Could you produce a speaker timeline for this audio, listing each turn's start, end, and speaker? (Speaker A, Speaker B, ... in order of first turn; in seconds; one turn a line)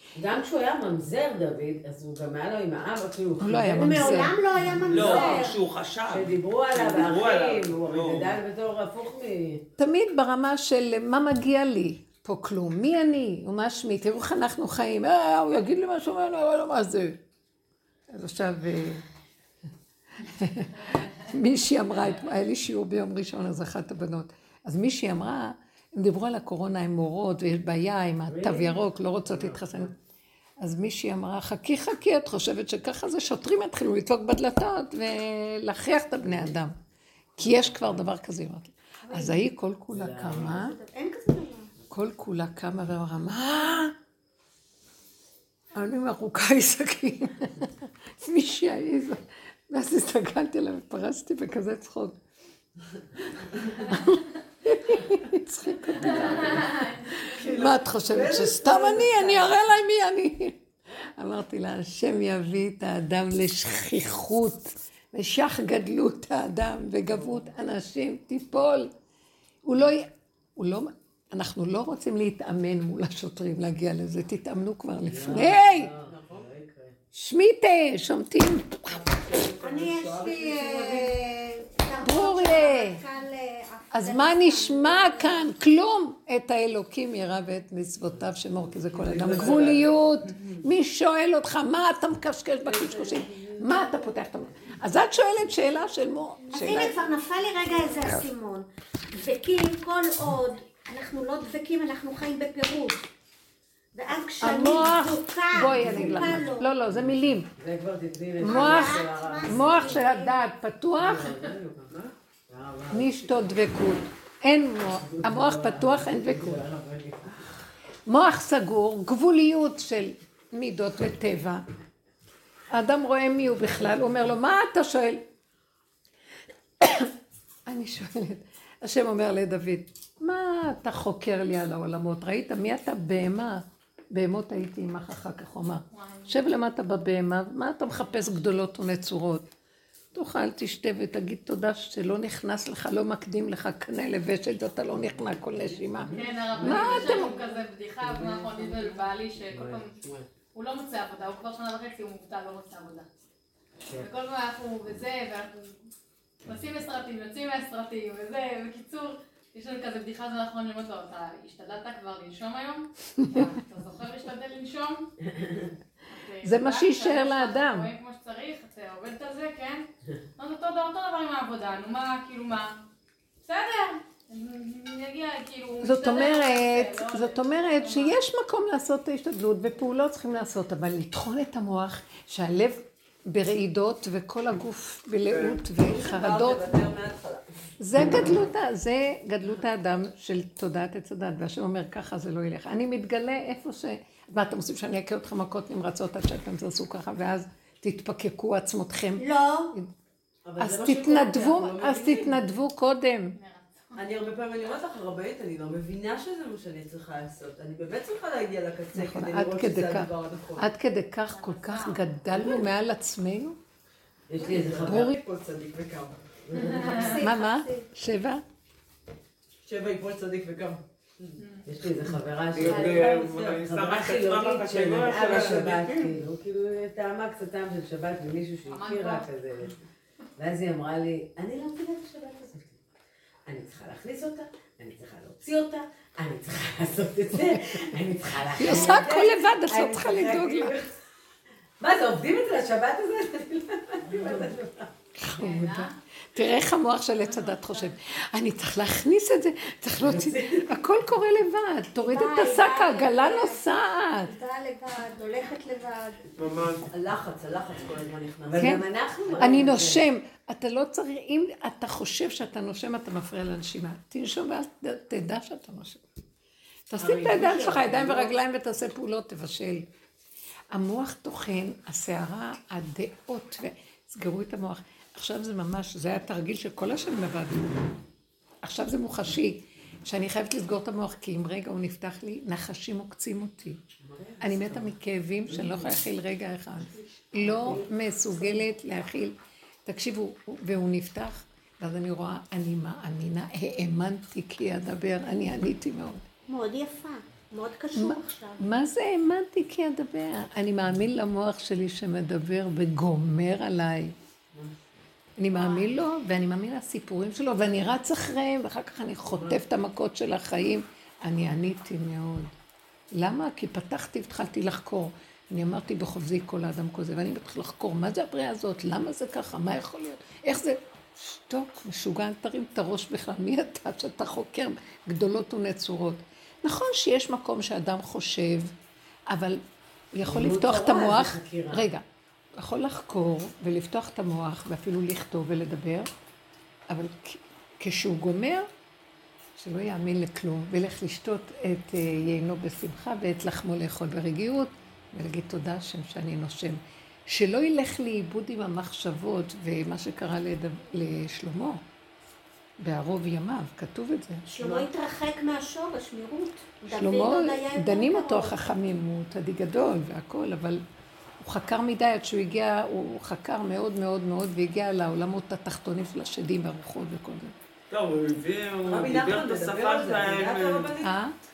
Speaker A: 0.2-5.5
Speaker B: 3.4-4.4
Speaker C: 3.8-5.6
Speaker D: 4.9-8.4
Speaker E: 5.0-5.4
Speaker A: 6.1-9.6
Speaker B: 9.8-17.2
Speaker B: 18.1-19.1
Speaker B: 20.2-29.9
Speaker A: 28.3-29.9
Speaker B: 30.6-36.8
Speaker B: 37.4-40.7
Speaker A: 37.4-38.0
Speaker C: 39.0-39.4
Speaker A: 39.9-40.5
Speaker C: 40.2-41.7
Speaker B: 41.9-43.9
Speaker B: 45.8-52.2
Speaker B: 53.8-68.9
Speaker E: 56.1-56.4
Speaker F: 56.2-57.2
Speaker E: 57.2-59.5
Speaker B: 69.6-75.9
Speaker A: 75.1-77.0
Speaker E: 76.1-76.5
Speaker B: 77.1-79.0
Speaker E: 78.9-81.1
Speaker C: 79.6-85.3
Speaker B: 82.0-83.0
Speaker B: 83.9-97.0
Speaker D: 89.0-89.9
Speaker E: 89.1-89.7
Speaker E: 92.6-94.0
Speaker C: 96.5-103.0
Speaker C: 104.0-106.7
Speaker B: 104.4-107.5
Speaker A: 105.8-106.3
Speaker A: 106.9-110.0
Speaker B: 108.4-111.3
Speaker C: 108.4-110.3
Speaker A: 111.0-111.9
Speaker A: 112.5-113.5
Speaker B: 112.9-116.7
Speaker A: 114.9-117.5
Speaker B: 118.1-121.7
Speaker B: 122.7-125.2
Speaker A: 123.7-124.1
Speaker B: 126.8-127.1
Speaker B: 127.7-139.5
Speaker F: 135.9-136.4
Speaker B: 140.1-147.4
Speaker A: 146.0-147.5
Speaker F: 146.1-149.9
Speaker E: 146.6-147.4
Speaker A: 148.0-149.0
Speaker A: 149.6-150.2
Speaker F: 150.5-153.1
Speaker F: 153.9-155.8
Speaker F: 156.4-165.1
Speaker B: 163.2-163.5
Speaker F: 166.1-169.9
Speaker B: 166.4-167.9
Speaker F: 170.4-172.8
Speaker F: 173.4-178.2
Speaker B: 175.8-186.6
Speaker E: 185.4-187.7
Speaker B: 187.8-199.9
Speaker C: 199.2-199.7
Speaker E: 200.4-202.4
Speaker B: 200.6-203.4
Speaker F: 203.3-204.0
Speaker E: 203.9-210.7
Speaker B: 208.9-213.6
Speaker F: 211.3-212.0
Speaker A: 214.3-215.1
Speaker E: 214.4-217.0
Speaker B: 214.8-215.2
Speaker A: 216.6-217.1
Speaker F: 216.6-216.9
Speaker C: 216.9-217.9
Speaker B: 217.2-218.4
Speaker E: 219.7-221.4
Speaker F: 221.4-221.7
Speaker A: 221.7-229.7
Speaker D: 222.5-226.1
Speaker C: 222.7-223.0
Speaker F: 228.7-229.3
Speaker A: 230.4-232.8
Speaker A: 233.5-240.9
Speaker B: 238.6-240.8
Speaker A: 241.8-244.9
Speaker B: 245.2-254.3
Speaker F: 245.4-245.9
Speaker F: 247.2-247.9
Speaker A: 250.0-250.7
Speaker C: 252.0-256.3
Speaker D: 256.4-256.9
Speaker E: 256.9-259.8
Speaker A: 258.5-260.0
Speaker B: 258.6-258.8
Speaker B: 259.4-266.0
Speaker B: 266.9-269.9
Speaker E: 267.0-268.2
Speaker A: 267.2-268.0
Speaker B: 270.7-277.8
Speaker B: 278.6-283.8
Speaker E: 284.0-284.8
Speaker B: 284.4-289.4
Speaker E: 285.5-285.9
Speaker A: 287.4-287.9
Speaker B: 289.9-296.3
Speaker C: 296.5-298.6
Speaker B: 297.9-304.2
Speaker E: 304.5-304.9
Speaker B: 305.4-312.5
Speaker C: 305.6-305.9
Speaker E: 309.3-309.6
Speaker B: 313.2-328.7
Speaker B: 329.3-329.6
Speaker B: 330.1-332.0
Speaker A: 330.2-331.9
Speaker B: 332.6-336.1
Speaker B: 336.9-338.7
Speaker B: 339.6-351.8
Speaker B: 352.8-354.9
Speaker C: 354.5-358.7
Speaker B: 356.9-360.8
Speaker B: 361.4-367.5
Speaker D: 367.9-370.9
Speaker E: 368.9-371.1
Speaker B: 371.0-371.4